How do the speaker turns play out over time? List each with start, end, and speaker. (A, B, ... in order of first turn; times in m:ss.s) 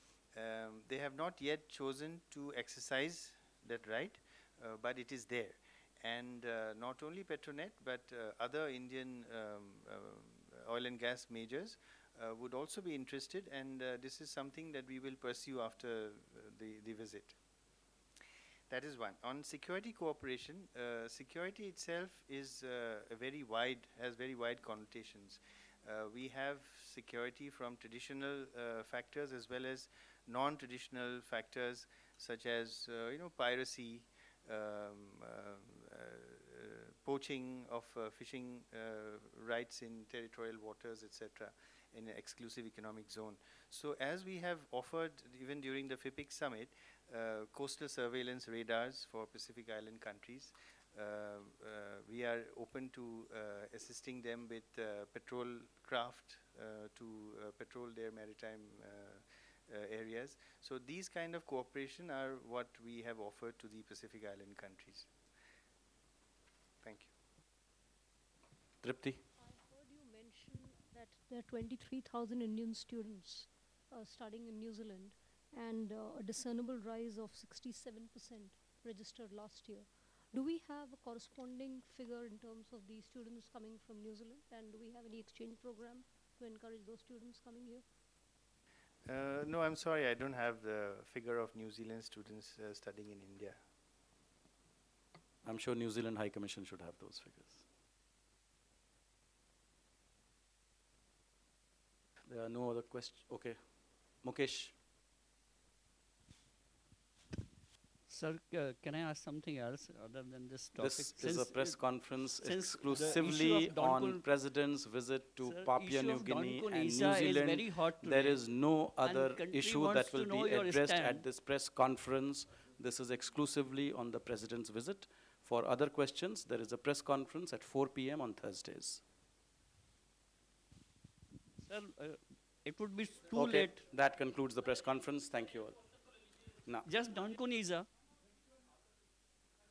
0:00.3-0:17.4 A
0:18.7-1:05.1 A
1:06.8-1:07.1 A
1:08.8-1:09.2 B
1:09.4-1:27.8 C
1:29.0-1:33.6 A
1:35.4-1:37.6 B
1:42.3-1:44.7 B
1:48.1-1:54.3 D
1:50.8-2:09.0 B
1:55.4-2:01.3 D
2:11.6-2:13.8 D
2:13.2-2:15.9 B
2:16.8-2:17.9 D